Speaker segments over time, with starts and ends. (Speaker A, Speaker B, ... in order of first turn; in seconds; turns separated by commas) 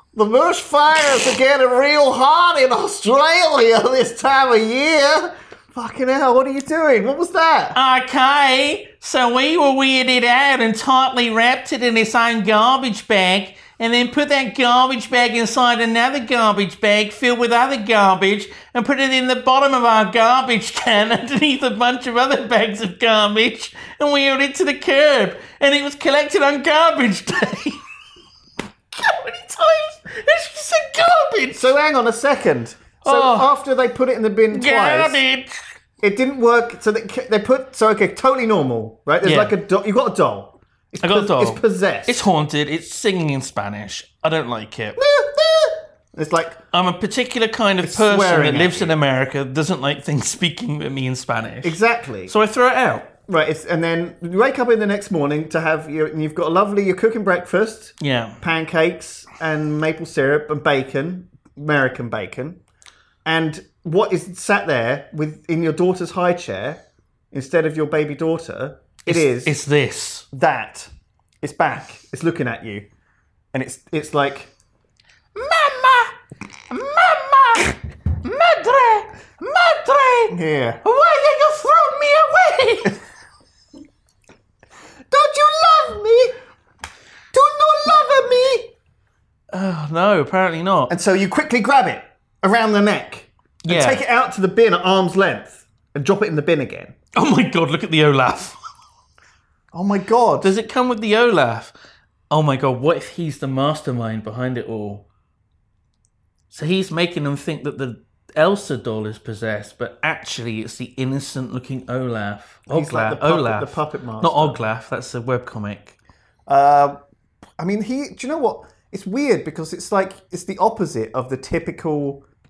Speaker A: 0.1-7.8, Speaker B: 7.7-27.8, Speaker B: 28.9-31.7, Speaker A: 31.5-35.2, Speaker B: 33.0-33.5, Speaker B: 34.5-35.6, Speaker A: 36.0-42.2, Speaker B: 39.2-39.5, Speaker B: 41.0-45.0, Speaker A: 45.0-46.6, Speaker B: 46.7-53.1, Speaker A: 47.8-49.0, Speaker A: 51.6-52.3, Speaker A: 53.3-62.6, Speaker B: 58.0-58.4, Speaker A: 63.2-69.6, Speaker B: 69.1-70.3, Speaker A: 70.3-70.9, Speaker A: 71.4-72.9, Speaker A: 73.5-74.5, Speaker B: 75.3-76.2, Speaker B: 76.7-83.0, Speaker A: 80.3-80.8, Speaker A: 85.1-86.4, Speaker A: 87.3-88.7, Speaker B: 89.5-90.9, Speaker A: 90.9-97.0, Speaker B: 93.7-94.0, Speaker B: 97.1-98.6, Speaker A: 99.7-100.5, Speaker B: 100.4-101.7, Speaker B: 102.3-105.0, Speaker B: 106.5-116.0, Speaker A: 112.7-114.6, Speaker A: 116.5-117.0, Speaker A: 117.6-122.2